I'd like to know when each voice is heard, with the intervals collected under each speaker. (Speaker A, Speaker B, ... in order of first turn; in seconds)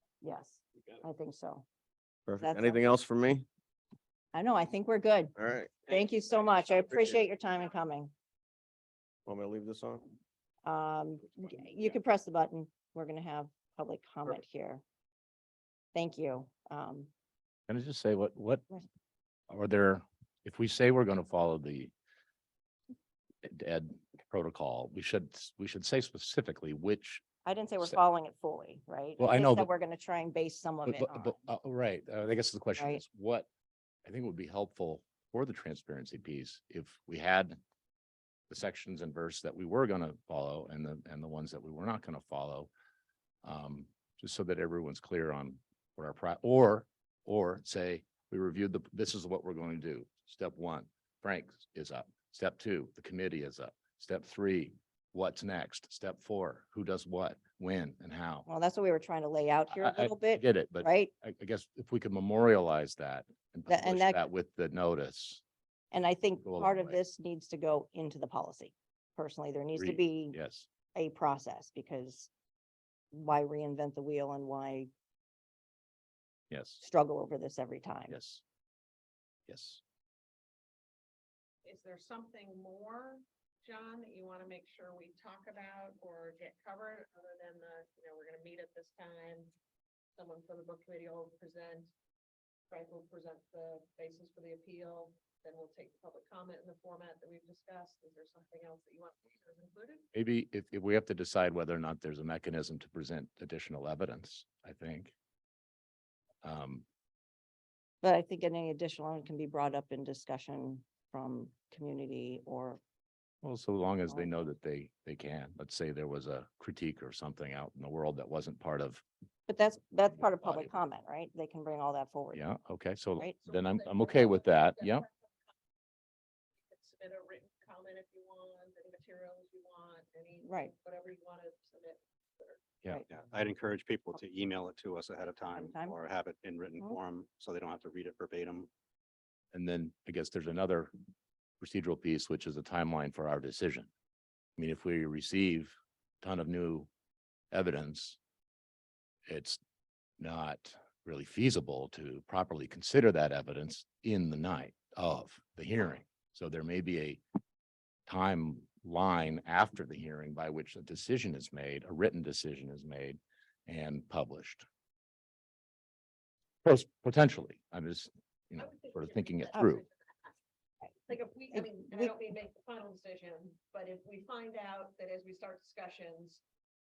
Speaker A: 0.2-1.6, 2.4-2.9, 4.3-5.3, 5.9-8.1, 10.6-14.8, 15.9-17.1, 27.4-31.3, 58.5-61.1, 63.7-64.2, 65.9-70.4, 70.9-72.3, 73.1-74.9, 76.8-78.1, 108.0-112.8, 119.5-122.4, 130.4-130.7, 135.5-135.9, 171.5-172.1
Speaker B: 2.3-3.5, 5.4-5.9, 9.2-10.1
Speaker C: 6.5-7.2, 81.6-89.5, 90.2-91.9, 92.7-100.0, 123.5-125.3, 126.6-132.6, 168.6-170.4, 171.1-176.4
Speaker D: 17.7-18.7, 19.5-21.9, 23.4-27.2, 29.2-29.7, 30.8-33.5, 34.0-37.6, 38.5-42.7, 43.4-58.5, 59.7-65.4, 66.4-67.0, 69.8-70.7, 76.5-76.8, 78.1-78.4, 79.5-79.8, 100.1-105.1, 106.4-106.8, 113.4-119.0, 120.4-120.7, 122.3-125.0, 139.5-140.9, 141.6-143.9, 144.6-146.9, 147.5-148.2, 149.3-149.6, 150.2-157.2, 158.1-164.6, 166.6-169.8
Speaker E: 133.1-138.7